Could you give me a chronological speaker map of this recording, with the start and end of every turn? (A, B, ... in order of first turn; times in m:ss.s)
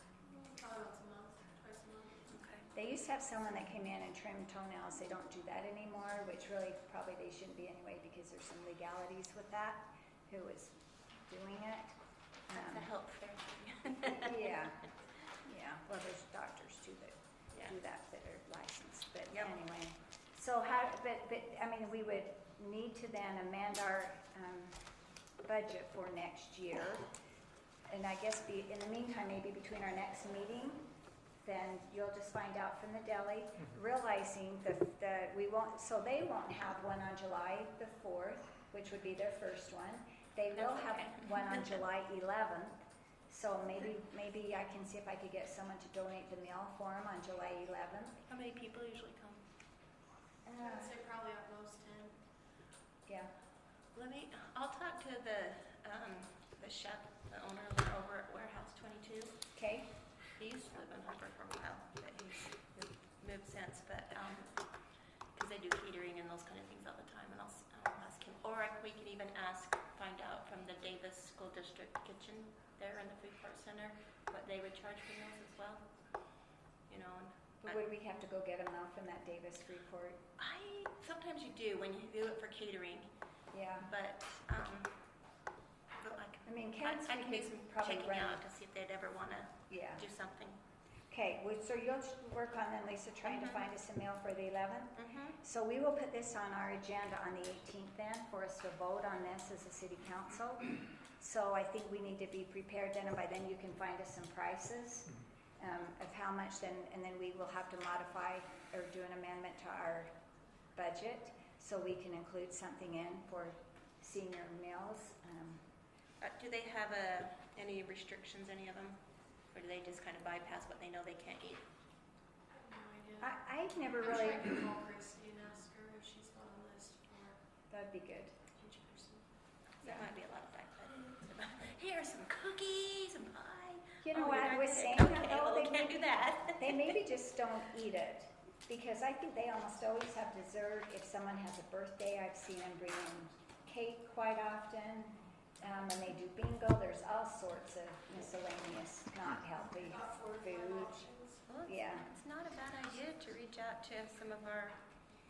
0:00.3-0:02.2 A
0:02.3-0:02.6 B
0:02.7-0:11.9 C
0:12.5-0:12.8 C
0:12.5-0:14.5 B
0:14.2-0:14.9 C
0:15.4-0:24.8 C
0:25.4-0:27.1 C
0:27.9-0:30.8 C
0:31.4-0:48.2 C
0:40.5-0:41.8 B
0:48.3-0:49.4 B
0:50.4-0:50.9 C
0:50.6-0:52.1 A
0:53.1-0:53.3 C
0:53.9-0:59.4 B
0:59.5-0:59.9 C
1:00.3-1:04.8 B
1:05.3-1:15.8 B
1:16.9-1:17.8 B
1:17.6-1:20.2 C
1:20.4-1:23.1 B
1:23.5-1:23.9 C
1:23.8-1:24.9 B
1:26.0-1:30.6 B
1:26.4-1:28.4 C
1:29.7-1:30.0 C
1:31.1-1:50.1 C
1:33.2-1:33.7 B
1:34.9-1:35.4 B
1:50.7-1:55.7 C
1:56.2-1:59.0 B
1:59.5-2:01.6 B
2:02.5-2:03.4 A
2:03.2-2:04.6 C
2:04.0-2:07.4 A
2:07.7-2:08.4 C
2:08.5-2:09.2 A
2:09.8-2:16.9 B
2:14.0-2:31.0 C
2:29.8-2:31.4 A
2:31.5-2:34.8 B
2:31.6-2:32.1 C